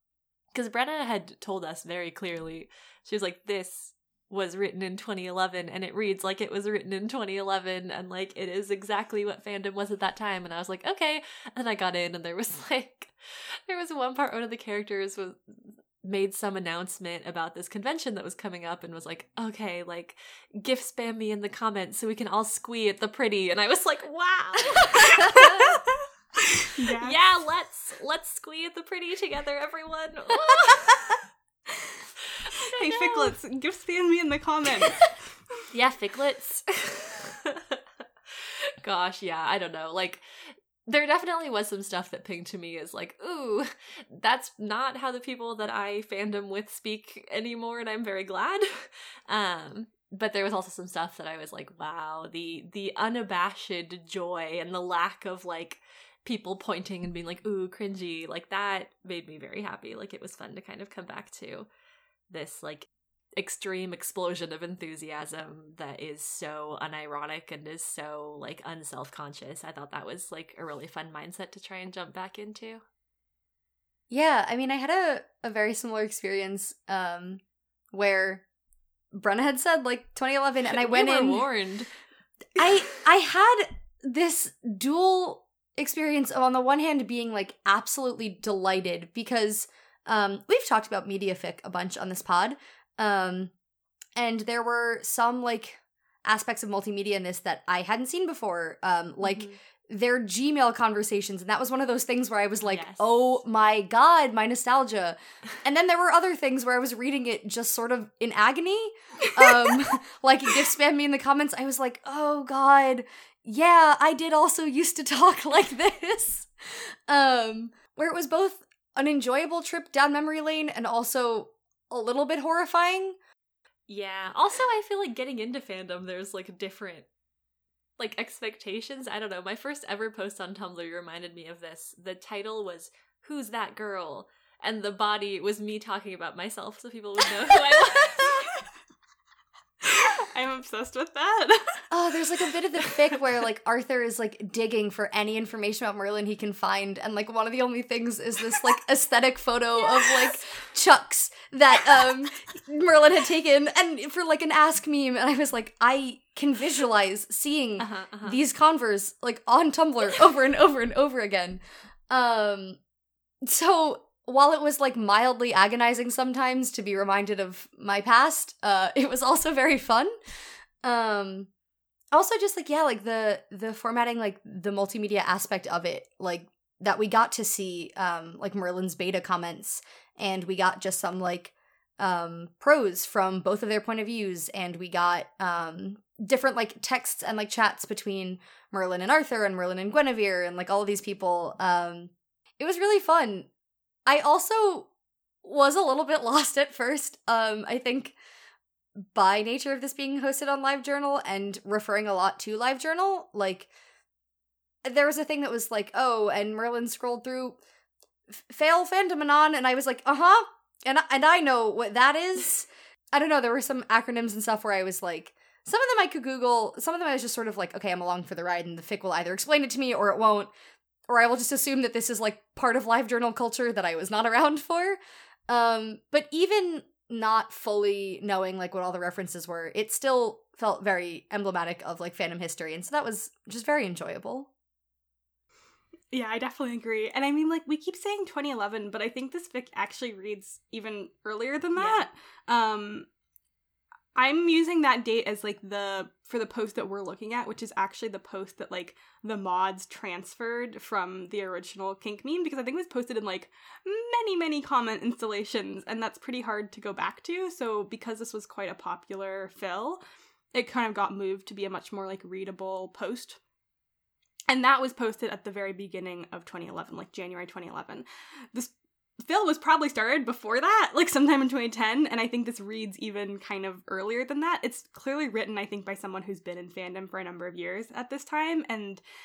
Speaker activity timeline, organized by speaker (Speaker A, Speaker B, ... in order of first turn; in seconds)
Speaker A: 0.5-13.1, 13.7-15.4, 16.0-25.8, 27.0-31.2, 32.5-33.3, 35.7-37.8, 38.4-61.7, 62.3-72.8, 80.7-81.9, 99.2-99.6, 102.6-103.4, 123.9-127.1, 128.0-138.5, 157.8-158.4, 241.8-242.1
Speaker B: 24.9-25.8, 26.4-27.2, 32.6-35.1, 109.2-109.7, 139.8-141.8, 236.1-243.1, 244.1-260.0, 260.5-263.4, 264.5-279.0
Speaker C: 74.1-77.4, 77.9-78.4, 79.1-81.5, 82.6-93.5, 94.2-123.2, 141.9-162.8, 163.4-170.1, 170.8-171.5, 172.1-193.5, 194.1-194.9, 195.4-198.2, 199.1-203.7, 204.8-207.6, 208.3-220.5, 221.1-234.5